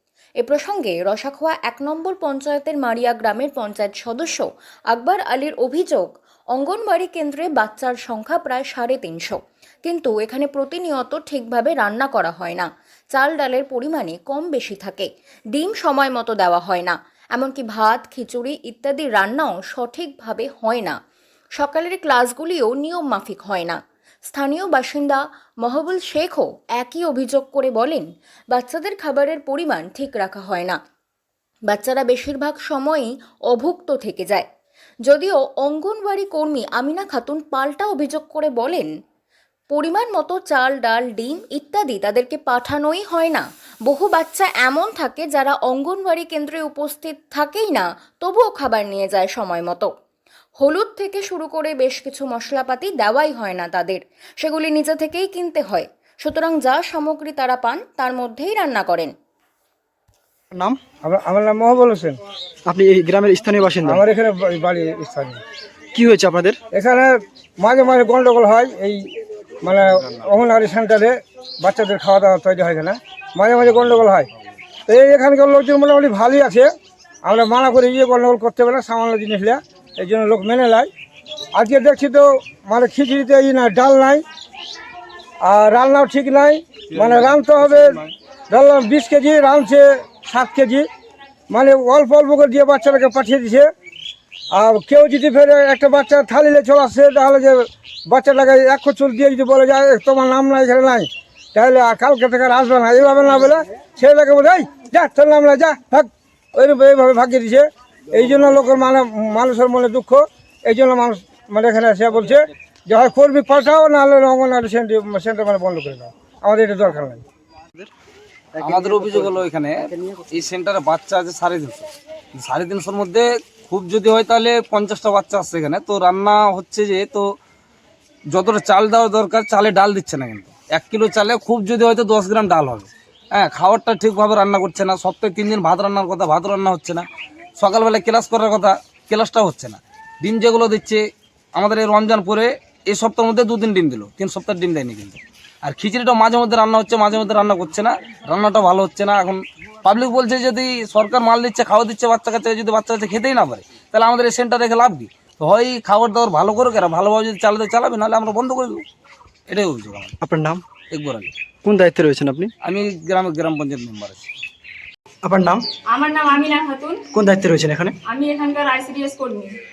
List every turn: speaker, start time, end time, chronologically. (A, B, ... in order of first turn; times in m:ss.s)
0:00.4-0:21.0 A
0:21.6-0:30.8 A
0:31.7-0:34.4 A
0:35.1-0:38.9 A
0:39.7-0:49.9 A
0:50.6-0:59.1 A
1:00.5-1:00.8 B
1:01.0-1:02.2 C
1:02.6-1:04.0 B
1:03.8-1:05.4 C
1:05.9-1:06.6 B
1:06.7-1:09.1 C
1:09.6-1:14.3 C
1:14.9-1:16.7 C
1:17.2-1:20.9 C
1:21.5-1:24.2 C
1:25.4-1:30.9 C
1:31.5-1:33.7 C
1:34.5-1:57.2 C
1:58.6-2:07.2 D
2:08.3-2:17.1 D
2:17.6-2:21.0 D
2:21.5-2:38.8 D
2:39.5-2:40.1 D
2:40.2-2:40.6 B
2:40.9-2:41.3 D
2:41.6-2:42.5 B
2:42.6-2:44.3 D
2:45.2-2:45.6 B
2:45.9-2:47.0 E
2:47.1-2:47.9 B
2:48.0-2:49.5 E